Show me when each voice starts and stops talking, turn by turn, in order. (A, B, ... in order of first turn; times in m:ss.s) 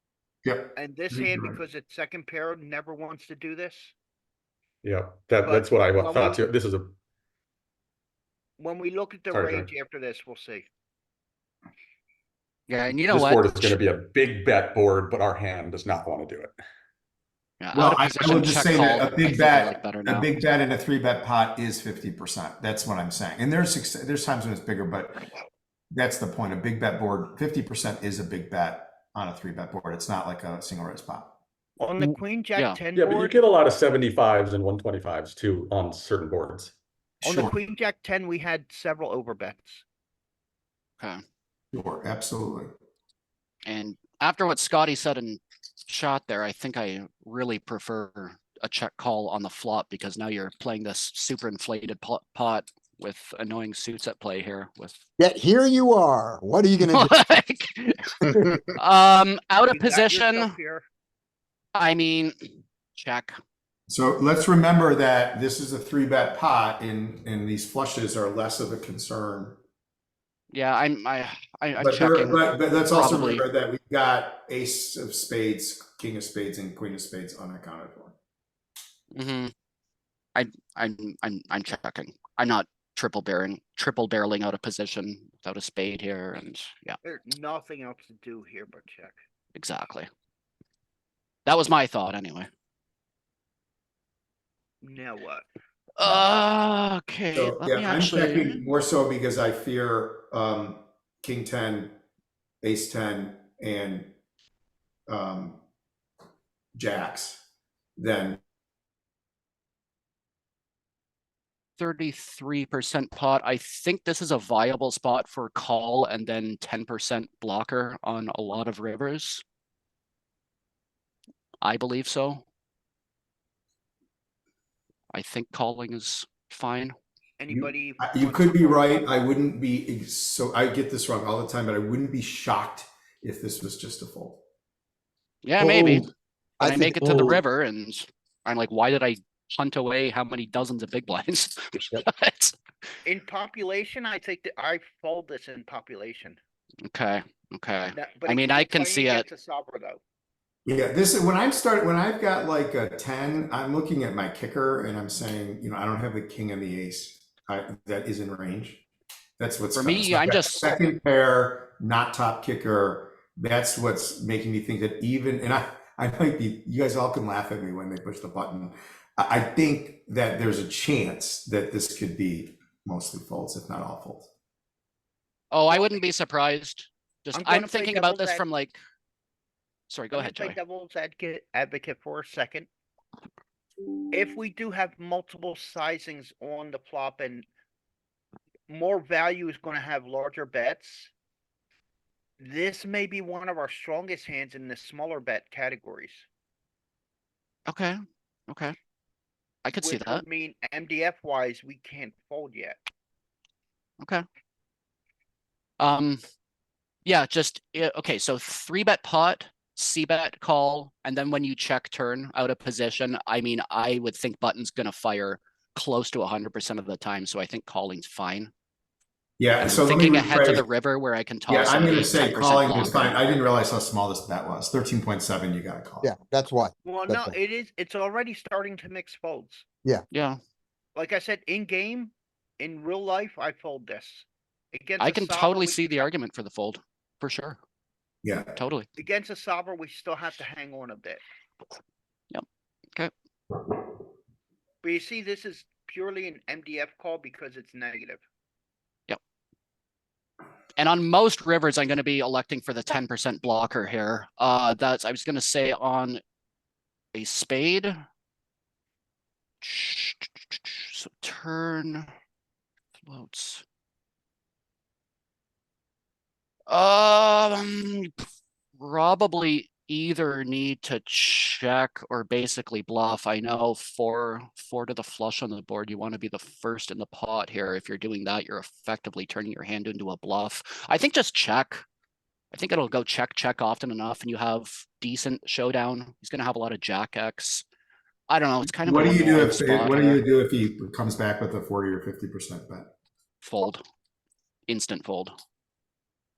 0:00.4-0:01.5 A
0:00.7-0:03.9 B
0:04.8-0:06.9 C
0:05.4-0:06.4 B
0:08.6-0:10.7 B
0:09.3-0:09.7 C
0:12.7-0:13.8 D
0:13.1-0:16.5 C
0:17.6-0:20.3 D
0:17.7-0:25.3 A
0:25.9-0:31.3 A
0:31.8-0:33.4 B
0:32.6-0:32.8 D
0:32.9-0:36.7 C
0:37.2-0:37.5 A
0:37.2-0:39.8 B
0:41.7-0:42.7 A
0:43.6-0:55.0 D
0:55.2-0:57.2 E
0:56.8-1:00.5 D
0:58.3-0:58.6 E
0:59.7-1:00.8 B
1:01.7-1:02.3 D
1:02.9-1:03.4 D
1:03.9-1:09.6 A
1:10.5-1:13.4 D
1:11.8-1:18.1 A
1:19.1-1:19.5 D
1:20.3-1:27.0 D
1:27.0-1:29.2 B
1:29.6-1:30.1 D
1:31.4-1:32.5 D
1:34.8-1:35.5 B
1:36.0-1:38.6 D
1:37.3-1:41.9 A
1:42.6-1:44.1 A
1:45.1-1:45.6 A
1:46.7-1:47.4 A
1:48.0-1:48.4 A
1:51.8-1:59.4 D
2:01.6-2:02.4 D
2:05.1-2:06.9 D
2:07.4-2:09.1 B
2:07.5-2:14.4 A
2:15.4-2:16.1 D
2:15.6-2:16.1 A
2:16.6-2:17.4 E
2:16.6-2:22.6 D
2:23.0-2:26.4 B
2:26.8-2:29.2 D
2:27.9-2:30.0 B
2:30.6-2:38.8 A
2:39.4-2:54.3 A
2:39.7-2:40.8 D
2:55.5-2:58.8 D
2:55.7-2:56.1 B
2:57.3-2:58.4 B
2:59.9-3:00.6 D
3:00.1-3:02.7 B
3:04.1-3:07.4 B
3:08.7-3:11.1 B
3:12.4-3:16.2 B
3:17.7-3:18.0 D
3:18.5-3:18.7 D
3:19.6-3:20.2 D
3:19.8-3:22.8 B
3:25.8-3:26.2 D
3:27.0-3:38.5 D
3:39.4-3:40.6 A
3:39.6-3:43.2 D
3:41.5-3:46.1 A
3:46.0-3:47.3 E
3:46.8-3:49.6 B
3:50.1-3:50.4 D
3:50.9-3:56.0 B
3:55.0-3:57.6 D
3:58.2-3:58.6 A
3:58.6-3:58.9 D
3:59.0-4:01.2 B
4:04.8-4:08.2 B
4:10.8-4:16.2 D
4:17.1-4:17.9 D
4:19.6-4:22.1 D
4:23.0-4:23.6 D
4:26.7-4:28.1 D
4:28.8-4:41.8 D
4:42.5-4:47.6 D
4:48.3-4:50.2 D
4:48.6-4:52.9 A
4:53.4-4:53.8 D
4:54.7-4:55.3 D